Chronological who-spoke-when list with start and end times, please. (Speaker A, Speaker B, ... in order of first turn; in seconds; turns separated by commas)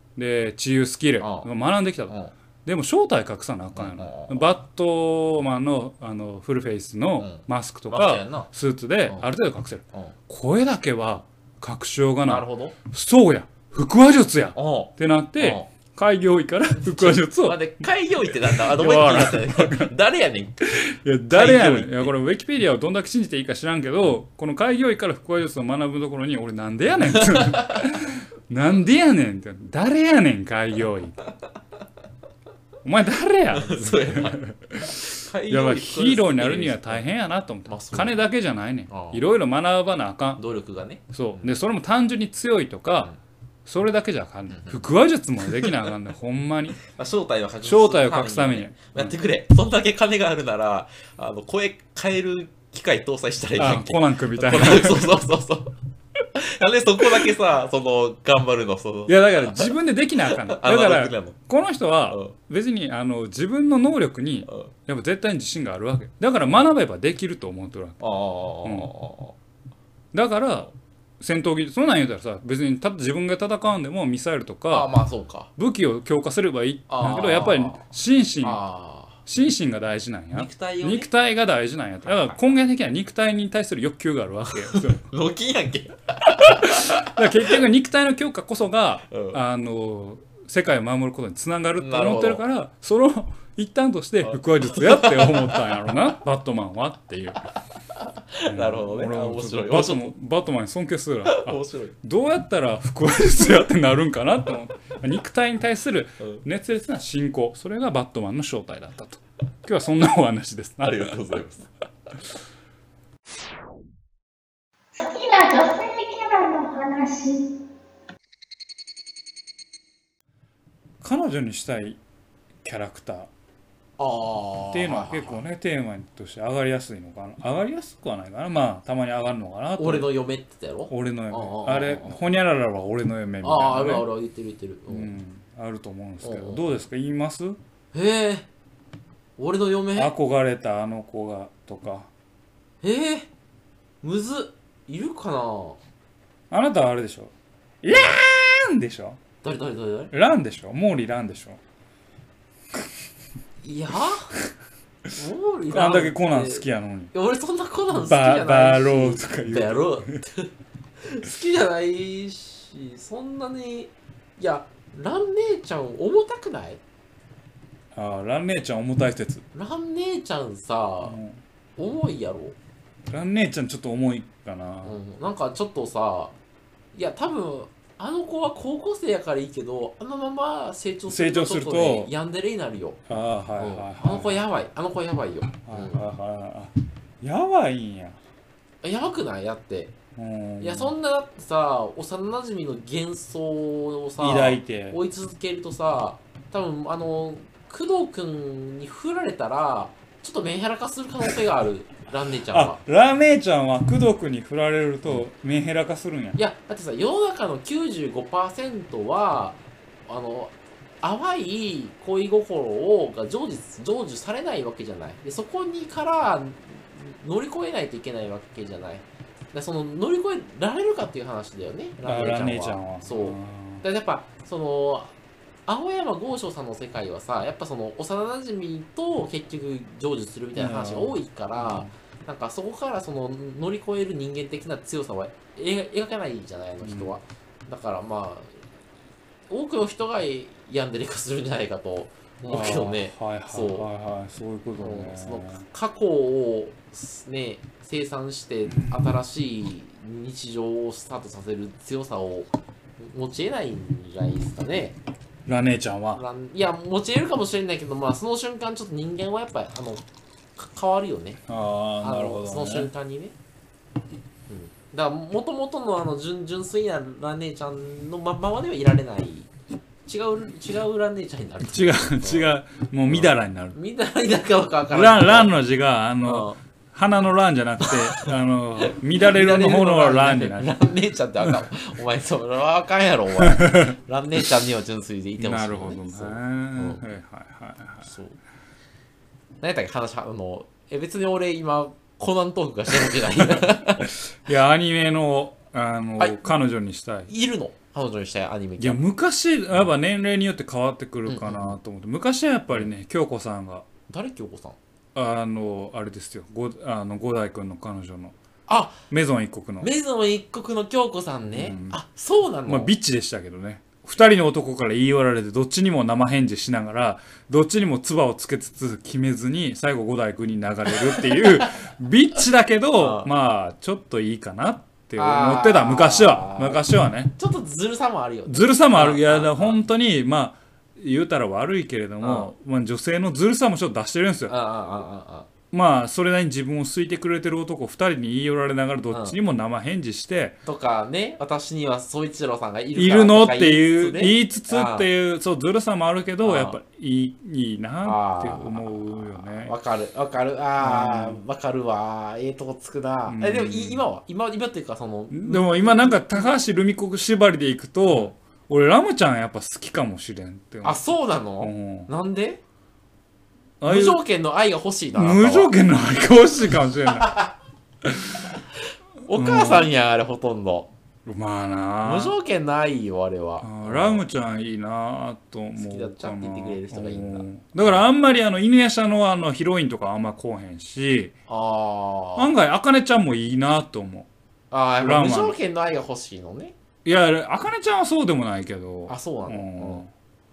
Speaker A: 0.1-17.6, Speaker B: 1.2-1.5, Speaker B: 2.1-2.3, Speaker B: 3.7-4.5, Speaker B: 7.2-8.5, Speaker B: 12.2-12.8, Speaker B: 14.5-15.7, Speaker B: 16.8-20.6, Speaker A: 18.3-19.9, Speaker A: 20.6-31.2, Speaker B: 21.3-22.1, Speaker B: 27.1-27.8, Speaker A: 32.8-40.4, Speaker B: 33.5-37.0, Speaker B: 37.7-38.2, Speaker B: 38.9-39.2, Speaker B: 40.4-41.5, Speaker A: 41.1-43.1, Speaker A: 43.6-46.8, Speaker B: 44.5-44.9, Speaker B: 45.5-45.7, Speaker B: 46.9-55.7, Speaker A: 47.6-49.1, Speaker A: 53.5-55.2, Speaker B: 56.3-61.4, Speaker A: 59.1-68.0, Speaker B: 62.1-62.4, Speaker B: 68.0-69.3, Speaker A: 68.6-68.9, Speaker A: 70.1-74.9, Speaker B: 74.7-75.5, Speaker A: 75.6-78.6, Speaker B: 76.9-77.8, Speaker B: 78.4-79.2, Speaker A: 79.2-85.0, Speaker B: 80.3-81.1, Speaker B: 82.0-82.4, Speaker B: 84.4-87.6, Speaker A: 86.4-97.4, Speaker B: 89.1-89.4, Speaker B: 91.8-92.4, Speaker B: 94.2-95.8, Speaker B: 98.0-100.1, Speaker A: 98.5-111.2, Speaker B: 101.2-102.0, Speaker B: 110.8-111.7, Speaker C: 115.0-117.5, Speaker A: 121.0-122.0, Speaker A: 122.6-123.3, Speaker B: 124.0-125.4, Speaker A: 124.7-130.1, Speaker B: 129.8-132.2, Speaker A: 130.9-134.1, Speaker B: 133.4-135.1, Speaker A: 134.9-137.6, Speaker B: 136.2-136.7, Speaker B: 137.9-138.5, Speaker B: 139.4-140.1, Speaker A: 139.9-142.1, Speaker B: 142.8-143.3, Speaker B: 144.0-145.8, Speaker A: 146.5-149.2, Speaker B: 149.4-150.1, Speaker A: 150.1-151.6, Speaker B: 153.6-154.3, Speaker B: 155.1-166.8, Speaker A: 155.7-157.1, Speaker A: 158.0-160.2, Speaker A: 167.9-169.4, Speaker B: 169.5-171.2, Speaker A: 171.0-171.4, Speaker B: 171.8-172.6, Speaker A: 173.1-174.9, Speaker B: 174.8-176.3, Speaker B: 176.9-183.0, Speaker A: 181.1-182.1, Speaker A: 183.1-184.4, Speaker B: 183.6-186.0, Speaker A: 185.6-188.2, Speaker B: 188.8-189.9, Speaker A: 190.2-190.9, Speaker B: 190.6-202.8, Speaker A: 194.2-195.0, Speaker A: 202.5-206.4, Speaker B: 206.4-225.1, Speaker A: 222.0-223.8, Speaker B: 225.7-238.6, Speaker A: 230.5-231.9, Speaker A: 236.8-237.2, Speaker B: 239.5-243.9, Speaker A: 242.5-245.6, Speaker B: 244.8-255.0, Speaker A: 248.7-249.1, Speaker A: 255.4-256.2, Speaker B: 256.1-260.0, Speaker B: 260.6-261.4, Speaker A: 261.5-262.9, Speaker B: 262.0-263.3, Speaker B: 264.5-269.5, Speaker B: 270.1-272.5, Speaker A: 271.6-273.8, Speaker B: 273.1-275.6, Speaker A: 274.9-280.7, Speaker B: 276.2-276.6, Speaker B: 277.8-287.1, Speaker A: 281.4-281.7, Speaker A: 283.4-283.9, Speaker A: 285.4-288.1, Speaker B: 288.0-288.4, Speaker B: 289.6-294.1, Speaker A: 293.0-297.3, Speaker B: 296.2-296.5, Speaker B: 297.3-299.0, Speaker A: 298.8-303.9, Speaker B: 301.2-301.8, Speaker B: 304.1-304.8, Speaker A: 305.1-308.3, Speaker B: 308.7-309.0, Speaker A: 309.1-309.9, Speaker B: 309.8-312.9, Speaker A: 311.5-312.0, Speaker A: 312.7-327.3, Speaker B: 321.1-321.7, Speaker B: 323.0-323.3, Speaker B: 325.1-326.8, Speaker B: 327.3-329.8, Speaker A: 328.5-334.5, Speaker B: 332.2-332.5, Speaker B: 334.5-335.5, Speaker A: 335.7-340.6, Speaker B: 339.1-339.4, Speaker B: 340.6-345.1, Speaker A: 342.9-349.7, Speaker B: 346.4-346.8, Speaker B: 348.0-356.6, Speaker A: 350.8-351.4, Speaker A: 353.3-354.0, Speaker A: 355.3-361.0, Speaker B: 360.8-362.6, Speaker A: 361.6-362.1, Speaker A: 363.8-364.2, Speaker B: 363.8-365.7, Speaker A: 365.1-367.3, Speaker B: 367.1-367.5, Speaker A: 368.0-368.6, Speaker B: 369.2-370.9, Speaker A: 369.3-369.9, Speaker A: 371.2-372.4, Speaker B: 372.0-374.2, Speaker A: 373.6-381.3, Speaker B: 375.7-378.0, Speaker B: 381.5-382.5, Speaker A: 382.4-384.3, Speaker B: 384.7-386.8, Speaker A: 385.0-385.6, Speaker A: 387.0-390.1, Speaker B: 389.1-390.0